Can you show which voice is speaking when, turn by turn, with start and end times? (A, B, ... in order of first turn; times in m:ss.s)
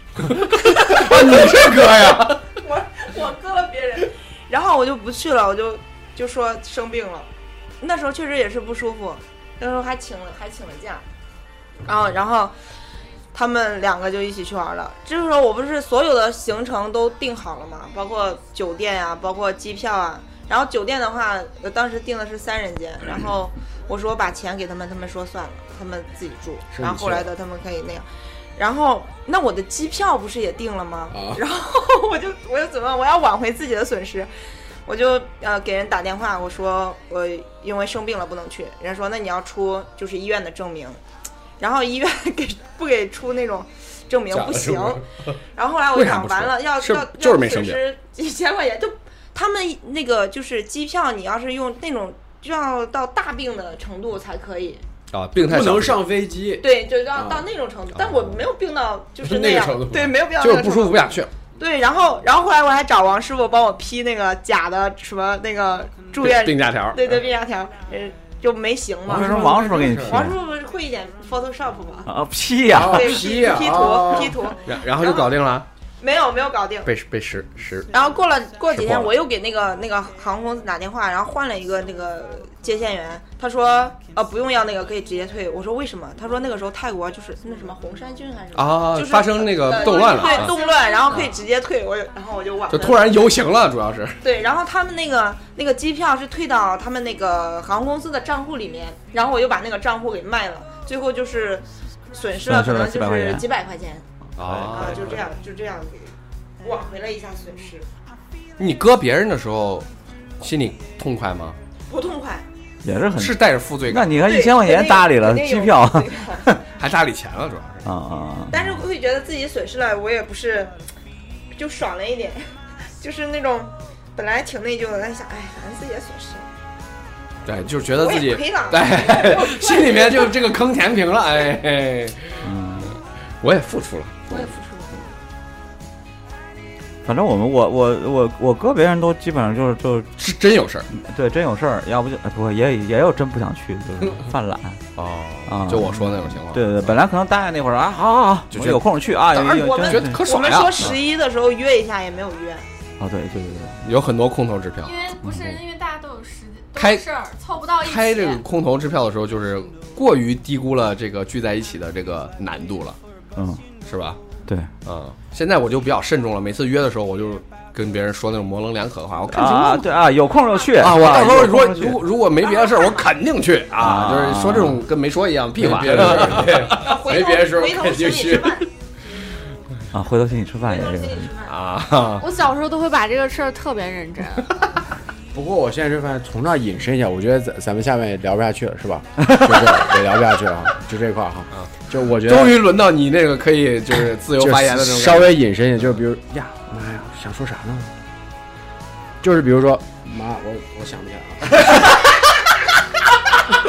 0:00.6-0:02.4 A
0:00.9-0:02.2 B
0:02.6-0:07.3 C
0:07.8-0:11.0 C
0:11.9-0:12.6 C
0:13.3-0:34.3 C
0:26.7-0:27.3 B
0:31.1-0:31.4 B
0:34.9-0:41.0 C
0:41.6-0:45.0 C
0:44.3-0:45.0 B
0:45.6-0:54.8 C
0:45.9-0:47.8 A
0:55.1-0:56.0 A
0:55.4-0:57.4 B
0:56.6-1:12.1 C
0:59.2-1:00.1 B
1:00.4-1:01.3 A
1:06.2-1:07.1 A
1:09.1-1:10.4 D
1:09.1-1:10.3 B
1:12.1-1:13.2 D
1:12.7-1:14.4 B
1:12.9-1:15.3 C
1:14.6-1:15.7 A
1:16.0-1:16.9 C
1:16.9-1:17.9 A
1:17.9-1:33.2 C
1:18.7-1:19.1 A
1:28.6-1:30.6 A
1:29.8-1:31.2 E
1:32.7-1:34.2 A
1:34.2-1:44.1 C
1:42.4-1:43.4 D
1:44.4-1:45.2 A
1:44.4-1:44.9 D
1:44.7-1:47.9 C
1:48.6-1:49.9 A
1:50.4-1:51.6 A
1:51.9-1:52.4 C
1:52.8-1:56.6 D
1:53.2-1:54.2 A
1:54.2-1:56.6 C
1:56.8-1:57.9 A
1:57.8-1:58.8 D
1:58.5-2:00.8 C
2:01.5-2:06.4 C
2:07.4-2:12.5 A
2:07.9-2:10.3 C
2:12.4-2:12.9 D
2:13.4-2:14.5 A
2:14.3-2:14.9 C
2:17.0-2:20.1 D
2:20.2-2:20.9 A
2:20.9-2:24.8 D
2:25.0-2:27.0 A
2:25.5-2:30.2 D
2:28.5-2:28.8 A
2:29.3-2:32.6 C
2:29.5-2:31.0 A
2:33.0-2:33.8 D
2:33.8-2:34.9 A
2:34.8-2:38.4 E
2:35.2-2:35.6 D
2:36.8-2:37.0 A
2:37.8-2:43.0 A
2:43.4-2:43.6 D
2:43.9-2:44.2 A
2:44.8-2:49.9 A
2:49.3-2:52.0 D
2:50.8-2:56.9 A
2:53.8-2:54.8 D
2:55.6-2:58.6 B
2:56.6-2:58.7 C
2:59.9-3:01.3 D
3:00.7-3:01.5 C
3:01.5-3:02.2 A
3:02.2-3:04.6 E
3:05.3-3:12.6 B
3:09.2-3:09.9 D
3:12.2-3:15.4 A
3:14.4-3:17.9 B
3:19.2-3:22.0 B